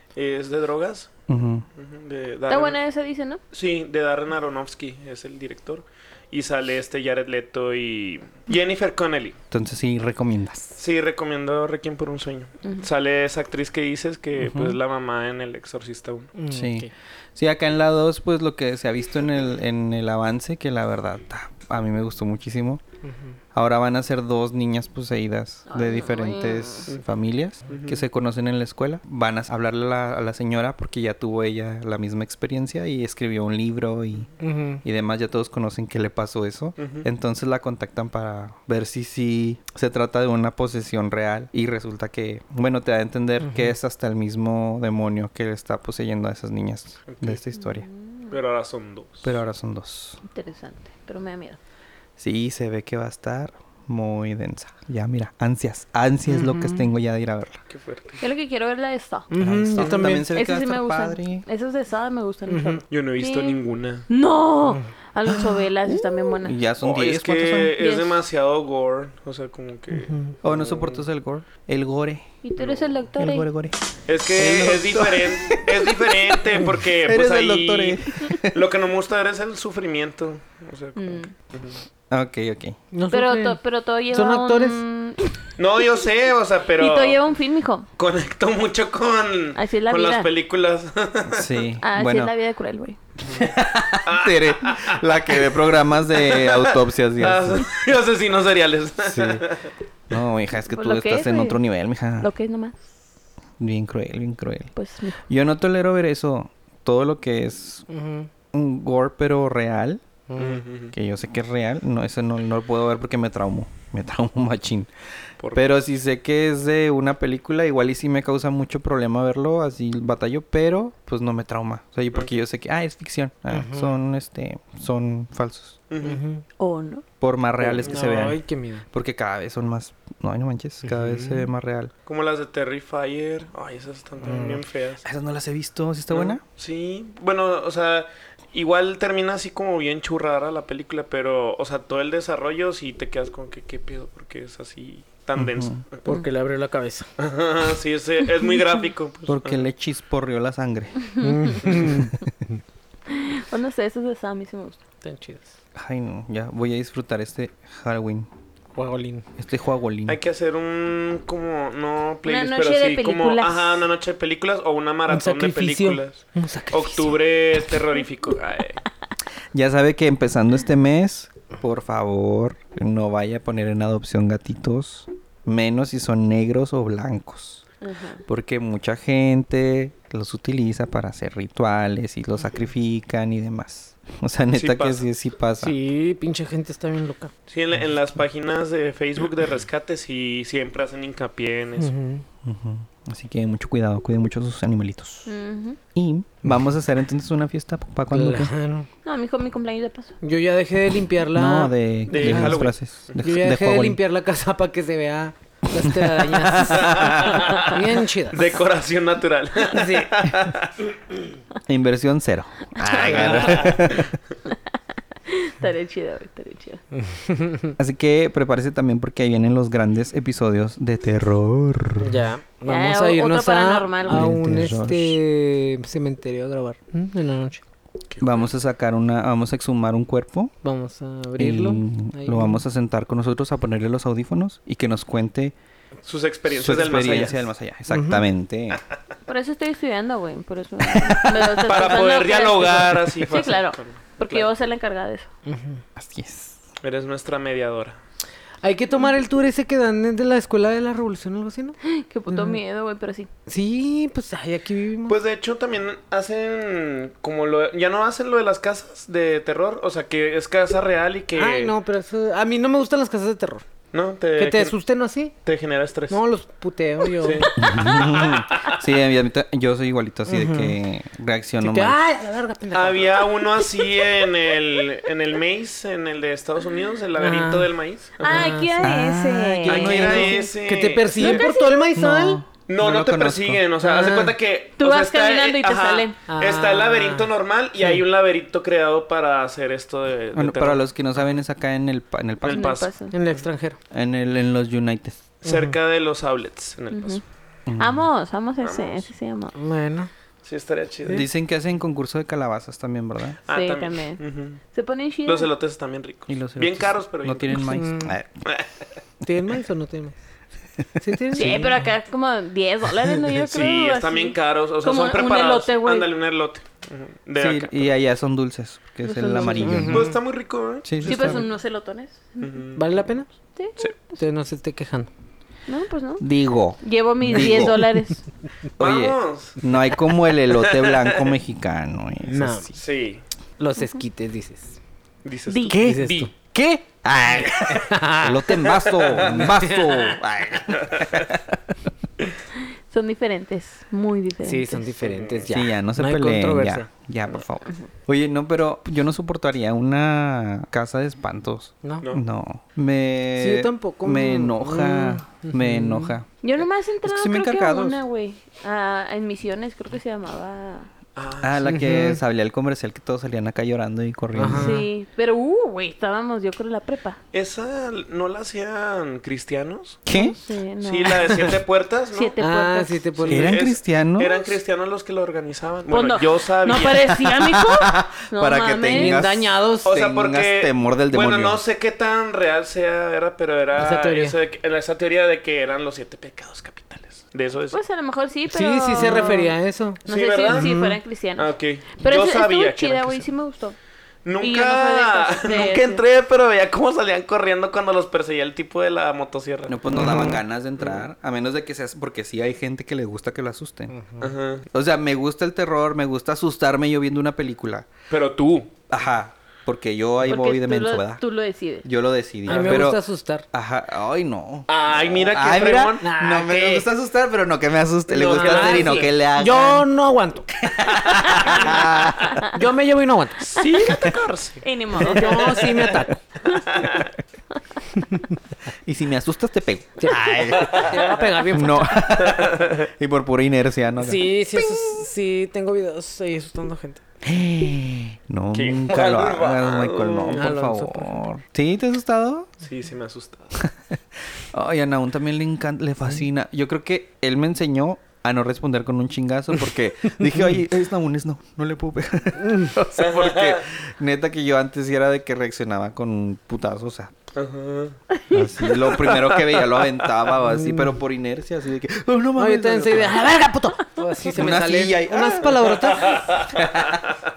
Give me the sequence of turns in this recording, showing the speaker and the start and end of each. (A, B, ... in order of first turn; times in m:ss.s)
0:00.2-0:01.1 A
0:01.3-0:01.7 B
0:01.8-0:02.8 A
0:02.5-0:03.4 C
0:03.5-0:09.4 A
0:09.5-0:10.8 B
0:10.8-0:16.3 A
0:14.4-0:14.8 B
0:16.4-0:16.9 D
0:16.5-0:22.8 B
0:23.5-0:34.3 B
0:25.7-0:26.9 C
0:27.7-0:28.0 A
0:34.4-0:34.8 D
0:34.8-0:47.9 B
0:36.8-0:37.1 A
0:43.4-0:43.7 D
0:47.1-0:47.4 A
0:47.6-0:48.3 C
0:48.3-0:49.3 A
0:49.2-0:50.2 B
0:50.3-0:51.6 C
0:52.2-0:57.6 B
0:56.3-0:56.9 D
0:57.7-0:58.2 A
0:58.2-0:59.3 C
0:59.3-1:00.3 D
0:59.4-1:01.4 B
1:00.3-1:06.6 C
1:02.5-1:02.8 D
1:02.9-1:04.1 A
1:05.9-1:07.8 B
1:06.8-1:11.0 A
1:07.8-1:08.2 C
1:10.0-1:10.3 D
1:10.4-1:12.3 B
1:12.4-1:13.5 C
1:13.2-1:13.8 B
1:14.1-1:21.8 A
1:14.4-1:18.6 B
1:21.0-1:21.3 C
1:22.1-1:22.8 B
1:22.9-1:23.6 D
1:23.1-1:25.4 C
1:24.1-1:24.8 D
1:25.6-1:27.2 A
1:26.8-1:27.9 C
1:28.0-1:31.6 A
1:29.6-1:30.3 C
1:31.3-1:32.3 B
1:31.8-1:33.0 C
1:33.3-1:37.7 B
1:34.0-1:35.6 A
1:36.1-1:39.7 A
1:39.0-1:39.4 B
1:40.1-1:42.3 B
1:40.7-1:41.6 C
1:42.2-1:42.9 C
1:43.6-1:44.7 B
1:44.8-1:45.2 C
1:45.3-1:47.9 B
1:47.9-1:48.3 D
1:48.5-1:50.0 B
1:50.3-1:50.6 D
1:50.4-1:50.9 A
1:50.9-1:54.9 B
1:55.4-1:55.7 A
1:55.5-2:05.8 B
2:03.5-2:04.0 D
2:05.9-2:06.2 A
2:06.0-2:06.4 D
2:06.6-2:07.0 C
2:07.2-2:08.4 B
2:07.6-2:08.8 D
2:07.8-2:08.3 A
2:08.9-2:11.9 B
2:10.9-2:11.5 D
2:12.1-2:15.0 A
2:14.3-2:14.6 D
2:15.0-2:16.4 B
2:16.1-2:26.1 A
2:25.4-2:25.8 B
2:26.1-2:27.1 D
2:27.2-2:29.7 A
2:29.3-2:31.1 B
2:31.2-2:31.5 C
2:31.2-2:32.1 D
2:31.6-2:32.1 B
2:33.1-2:34.8 C
2:35.0-2:35.4 D
2:35.8-2:38.3 B
2:38.8-2:39.3 D
2:39.4-2:40.2 B
2:40.1-2:48.8 A
2:42.3-2:43.9 C
2:45.1-2:47.2 D
2:49.5-2:57.6 B
2:57.8-2:58.2 C
2:58.3-3:05.8 B
3:04.5-3:05.0 A
3:05.6-3:07.3 D
3:07.5-3:11.9 A
3:11.8-3:12.2 D
3:12.4-3:15.3 B
3:15.3-3:15.8 C
3:16.0-3:18.5 B
3:18.1-3:18.9 D
3:19.0-3:20.2 C
3:20.2-3:22.7 D
3:21.3-3:24.0 B
3:22.1-3:23.2 A
3:23.2-3:28.5 D
3:25.8-3:27.4 B
3:27.0-3:30.8 A
3:29.7-3:30.2 D
3:31.7-3:34.1 B
3:32.9-3:34.0 A
3:33.1-3:33.4 D
3:35.3-3:36.8 C
3:37.0-3:37.8 D
3:37.8-3:42.2 B
3:42.0-3:47.6 D
3:42.7-3:44.3 C
3:44.1-3:45.2 B
3:48.1-3:48.5 A
3:48.2-3:50.5 B
3:50.6-3:52.6 D
3:51.4-3:55.6 B
3:56.1-3:57.5 A
3:56.5-3:58.8 B
3:57.9-3:58.2 D
3:59.3-4:05.3 C
4:00.9-4:01.8 B
4:01.6-4:04.5 A
4:05.5-4:05.8 D
4:06.0-4:06.6 B
4:06.8-4:08.0 A
4:08.6-4:11.8 D
4:11.8-4:13.3 C
4:12.3-4:12.6 D
4:13.5-4:15.2 D
4:15.1-4:21.7 A
4:21.4-4:23.6 D
4:23.9-4:24.8 A
4:24.4-4:25.3 D
4:25.4-4:26.2 A
4:26.1-4:27.5 D
4:27.1-4:28.8 A
4:27.6-4:32.0 B
4:30.3-4:30.8 D
4:31.6-4:33.3 D
4:32.7-4:38.5 A
4:37.2-4:37.7 D
4:38.2-4:40.5 C
4:38.2-4:38.9 D
4:38.8-4:40.5 B
4:39.7-4:41.5 A
4:40.1-4:42.4 D
4:41.2-4:41.7 C
4:42.0-4:43.6 B
4:42.7-4:50.8 A
4:43.8-4:44.4 D
4:44.8-4:46.2 C
4:46.3-4:47.3 D
4:50.4-4:52.8 B
4:52.4-4:52.9 A
4:52.5-4:53.2 C
4:53.1-4:53.8 D
4:53.9-4:55.2 B
4:55.4-4:57.2 A
4:55.5-4:55.8 D
4:56.9-4:57.2 C
4:57.7-4:58.1 B
4:57.8-4:59.6 C
4:58.6-4:59.1 A
4:59.6-5:00.1 D
5:00.4-5:01.3 A
5:01.1-5:03.4 B
5:03.5-5:04.6 A
5:03.5-5:04.2 C
5:04.7-5:05.5 C
5:05.2-5:07.8 A
5:06.3-5:08.4 B
5:07.7-5:08.2 D
5:09.2-5:10.2 D
5:11.0-5:11.8 D
5:11.3-5:11.7 B
5:11.3-5:16.1 C
5:13.5-5:17.9 A
5:17.4-5:20.2 B
5:19.0-5:19.9 C
5:19.4-5:20.2 D
5:19.8-5:21.4 A
5:20.8-5:21.4 B
5:21.0-5:22.6 C
5:22.4-5:23.0 A
5:22.8-5:23.3 D
5:23.6-5:24.2 C
5:24.2-5:25.1 D
5:25.7-5:26.3 C
5:26.2-5:27.8 B
5:26.8-5:28.2 C
5:27.4-5:27.7 D
5:28.8-5:32.8 B
5:28.8-5:29.6 A
5:30.5-5:31.3 A
5:32.3-5:32.7 D
5:32.8-5:33.2 A
5:33.6-5:34.8 D
5:35.2-5:36.3 A
5:35.5-5:35.8 C
5:35.7-5:41.6 B
5:35.7-5:36.3 D
5:37.7-5:40.2 D
5:42.9-5:44.9 C
5:44.4-5:46.9 D
5:45.1-5:45.5 A
5:45.5-5:56.3 B
5:53.4-5:56.2 D
5:56.4-6:00.9 C
5:57.0-5:58.0 B
6:01.2-6:01.7 A
6:01.4-6:04.8 B
6:01.6-6:02.2 D
6:04.4-6:04.9 D
6:04.5-6:07.2 C
6:07.3-6:10.0 A
6:10.1-6:10.4 B
6:10.1-6:11.5 C
6:10.8-6:12.4 A
6:12.1-6:13.0 C
6:12.4-6:13.6 D
6:13.2-6:17.1 A
6:13.3-6:14.5 B
6:15.9-6:19.2 C
6:17.0-6:21.6 B
6:18.9-6:19.9 D
6:19.8-6:27.8 A
6:23.7-6:24.4 D
6:27.7-6:29.5 C
6:28.5-6:31.0 D
6:29.0-6:29.5 A
6:30.0-6:30.7 A
6:30.0-6:33.8 C
6:31.4-6:33.3 A
6:34.2-6:40.0 A
6:34.4-6:36.0 C
6:39.7-6:43.9 B
6:40.0-6:40.4 D
6:43.9-6:44.3 D
6:44.2-6:44.7 A
6:44.7-6:47.9 B
6:48.1-6:48.7 A
6:48.9-6:51.2 B
6:50.3-6:51.9 C
6:51.8-6:59.9 B
6:52.5-6:53.5 D
6:52.5-6:52.9 A
6:54.7-6:56.1 A
6:56.0-6:56.9 D
6:58.1-7:00.5 D
6:58.1-6:59.1 A
7:00.6-7:02.4 B
7:01.4-7:03.9 D
7:03.5-7:05.5 A
7:04.6-7:05.7 C
7:05.0-7:06.2 D
7:06.7-7:07.1 A
7:08.8-7:15.0 B
7:10.0-7:12.3 D
7:10.7-7:11.0 A
7:12.3-7:12.7 A
7:14.0-7:17.0 D
7:17.2-7:22.5 B
7:18.5-7:20.5 A
7:20.3-7:21.3 D
7:22.6-7:23.6 A
7:23.6-7:24.0 B
7:24.5-7:37.2 B
7:32.4-7:32.7 D
7:33.0-7:33.6 A
7:37.4-7:38.0 A
7:38.3-7:43.2 B
7:38.8-7:39.9 A
7:40.5-7:40.9 D
7:42.4-7:46.3 D
7:44.3-7:47.1 B